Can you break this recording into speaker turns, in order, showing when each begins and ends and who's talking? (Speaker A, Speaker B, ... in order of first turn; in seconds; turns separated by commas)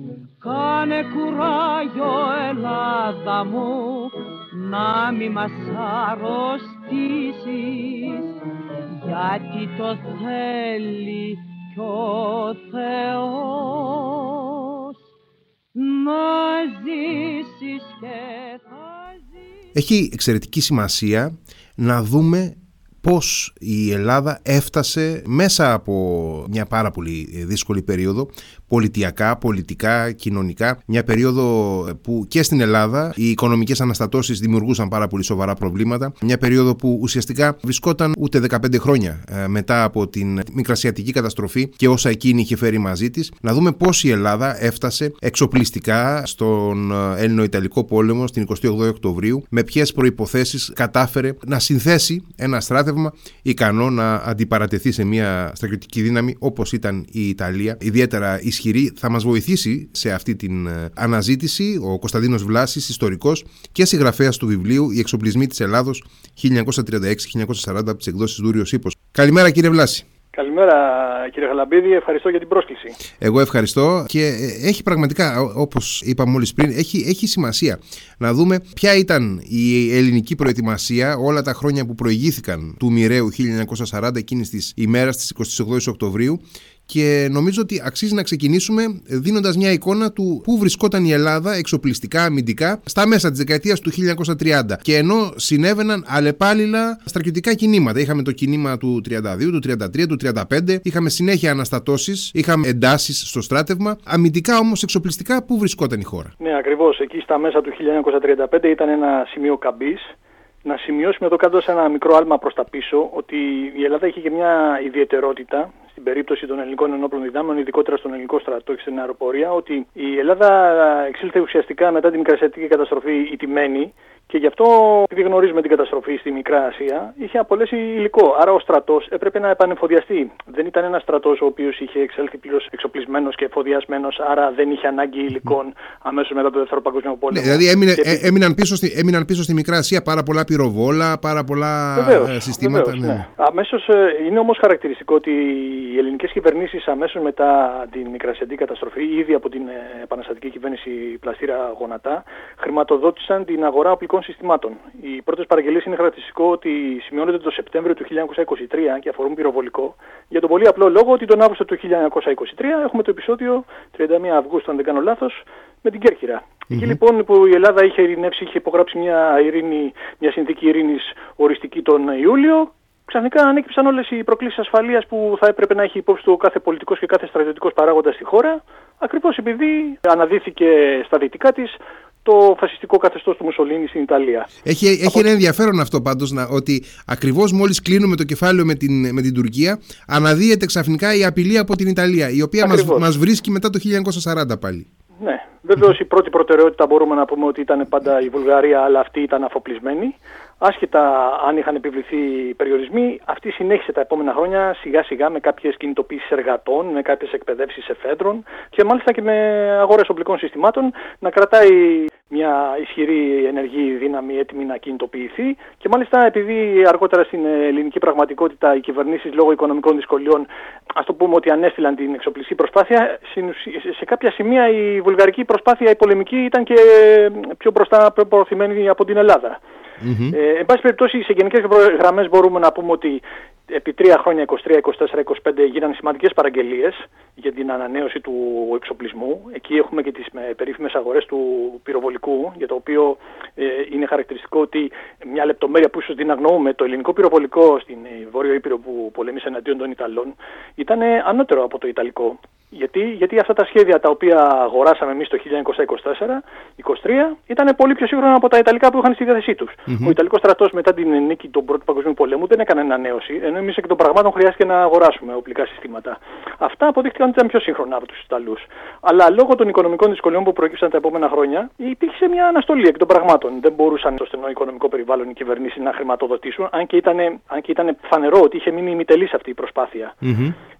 Speaker A: 0.4-8.2, Speaker A: 9.1-14.2, Speaker A: 15.8-19.2, Speaker B: 19.7-70.1, Speaker C: 70.3-73.0, Speaker B: 73.2-106.3, Speaker C: 106.4-110.1, Speaker C: 110.6-138.3, Speaker B: 137.3-143.3, Speaker C: 141.9-184.5, Speaker B: 166.7-167.0, Speaker B: 184.6-194.9, Speaker C: 192.6-193.1, Speaker C: 195.2-229.6, Speaker B: 230.0-230.4, Speaker C: 230.3-280.2, Speaker B: 259.9-260.1, Speaker B: 280.2-280.5